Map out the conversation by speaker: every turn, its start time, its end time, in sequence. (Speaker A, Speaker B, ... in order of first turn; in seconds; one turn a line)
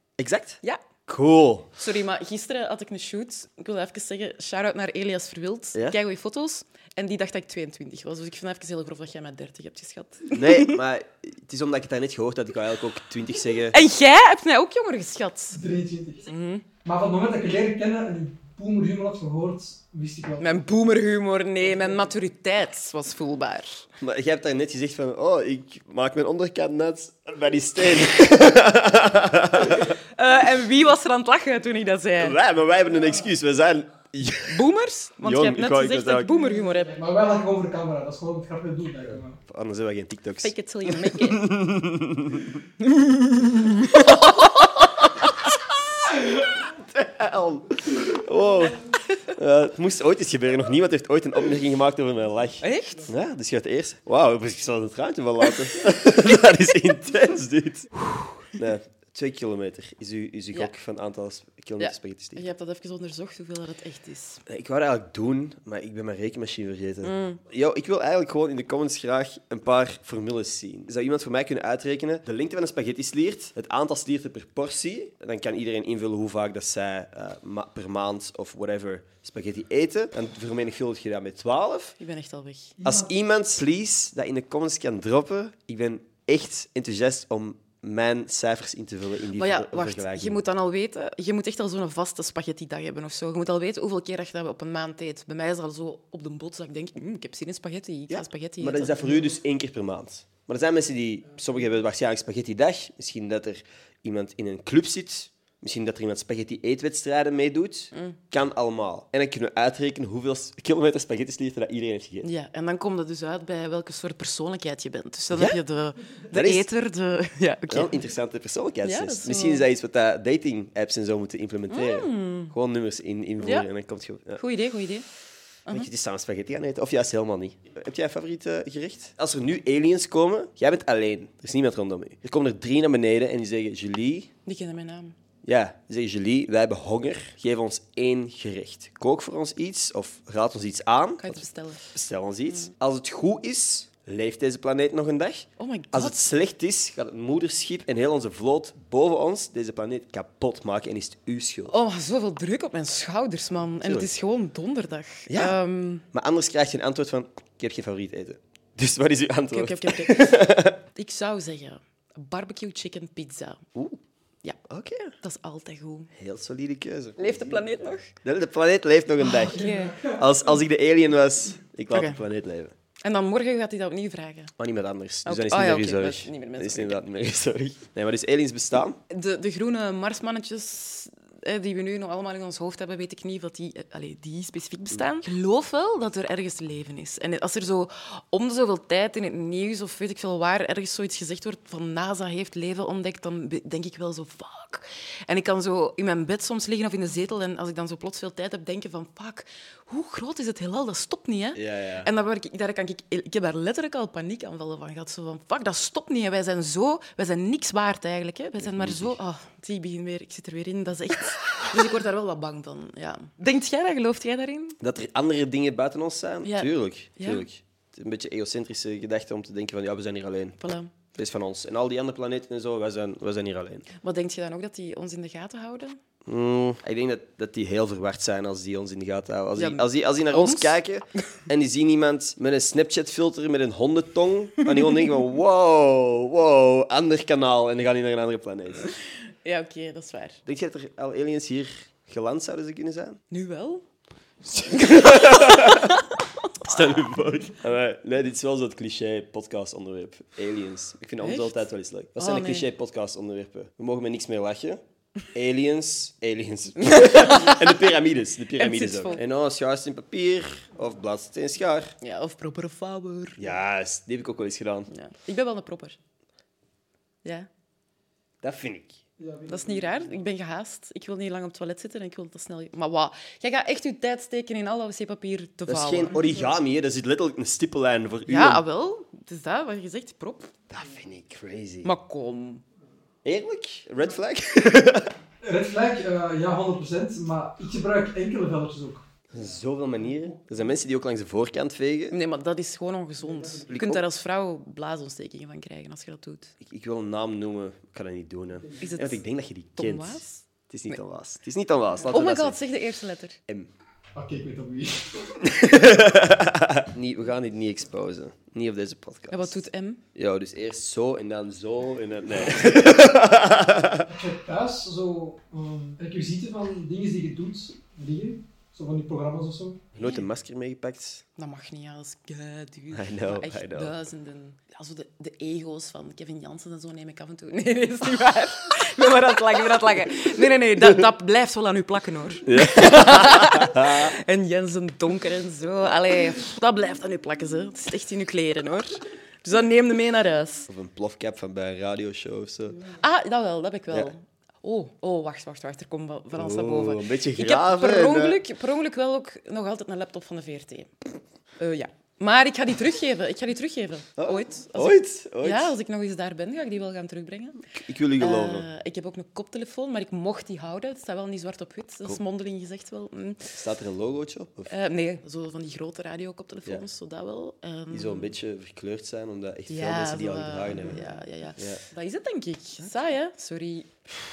Speaker A: 0.2-1.7
Speaker B: 1.8-10.8
Speaker A: 10.3-13.8
Speaker B: 13.7-15.6
Speaker C: 15.5-16.3
Speaker B: 16.3-16.6
Speaker C: 16.8-20.5
Speaker B: 20.4-23.9
Speaker A: 24.0-29.9
Speaker B: 29.7-32.4
Speaker A: 32.2-34.6
Speaker B: 34.5-37.0
Speaker A: 35.2-36.3
Speaker C: 36.9-39.4
Speaker A: 39.4-42.6
Speaker B: 40.4-41.4
Speaker B: 42.8-45.3
Speaker A: 44.0-45.3
Speaker A: 46.1-48.8
Speaker A: 49.3-62.4
Speaker B: 52.6-53.1
Speaker B: 61.8-64.4
Speaker A: 64.5-82.0
Speaker B: 67.0-67.4
Speaker B: 82.0-82.8
Speaker C: 82.8-83.1
Speaker A: 82.8-90.4
Speaker B: 89.3-99.3
Speaker A: 98.1-112.3
Speaker B: 107.9-108.2
Speaker B: 112.2-118.0
Speaker A: 115.3-115.6
Speaker A: 116.3-116.7
Speaker A: 117.7-124.4
Speaker B: 118.8-119.7
Speaker B: 121.7-122.5
Speaker B: 123.4-123.7
Speaker B: 124.4-125.0
Speaker A: 125.7-134.3
Speaker B: 134.4-135.1
Speaker A: 135.4-151.7
Speaker B: 141.2-141.8
Speaker B: 145.6-146.2
Speaker B: 151.7-156.1
Speaker A: 153.8-154.1
Speaker A: 155.3-155.6
Speaker A: 156.1-160.8
Speaker B: 159.5-163.6
Speaker A: 164.6-165.1
Speaker B: 165.2-166.1
Speaker A: 166.1-172.7
Speaker B: 167.2-168.1
Speaker B: 169.2-170.1
Speaker B: 171.9-172.2
Speaker B: 173.0-174.5
Speaker A: 174.6-179.0
Speaker B: 175.2-177.0
Speaker B: 179.1-214.8
Speaker A: 201.5-202.1
Speaker A: 208.6-209.2
Speaker A: 214.8-220.6
Speaker B: 216.4-217.4
Speaker B: 220.6-220.9
Speaker A: 221.1-223.9
Speaker B: 224.0-226.0
Speaker A: 226.2-238.9
Speaker B: 229.6-230.8
Speaker B: 239.4-240.4
Speaker A: 240.4-243.2
Speaker B: 243.3-243.8
Speaker A: 244.4-246.0
Speaker B: 244.7-246.1
Speaker A: 246.6-261.9
Speaker B: 251.2-251.6
Speaker B: 252.2-252.7
Speaker B: 256.8-257.9
Speaker B: 258.6-259.2
Speaker B: 262.0-263.6
Speaker A: 263.4-264.9
Speaker B: 264.9-266.0
Speaker A: 268.4-269.0
Speaker C: 269.2-270.1
Speaker B: 269.5-276.2
Speaker A: 275.7-278.6
Speaker B: 278.3-280.5
Speaker A: 280.7-281.9
Speaker B: 281.8-282.6
Speaker A: 283.2-285.1
Speaker C: 285.4-289.1
Speaker A: 289.3-292.2
Speaker B: 292.1-296.5
Speaker A: 293.7-294.0
Speaker A: 296.6-302.6
Speaker B: 298.8-299.2
Speaker B: 299.8-301.0
Speaker B: 302.1-303.4
Speaker C: 304.1-305.4
Speaker A: 305.4-309.6
Speaker B: 309.3-310.0
Speaker A: 310.1-314.1
Speaker C: 314.1-319.9
Speaker A: 319.9-321.2
Speaker B: 321.4-340.7
Speaker A: 322.9-324.0
Speaker A: 332.4-334.1
Speaker A: 340.7-342.9
Speaker B: 343.0-350.9
Speaker A: 346.3-348.4
Speaker B: 351.6-357.6
Speaker A: 354.2-355.7
Speaker A: 357.7-358.7
Speaker B: 358.2-363.6
Speaker A: 363.5-364.7
Speaker B: 364.7-368.3
Speaker A: 367.9-371.0
Speaker B: 369.7-373.9
Speaker A: 371.6-371.8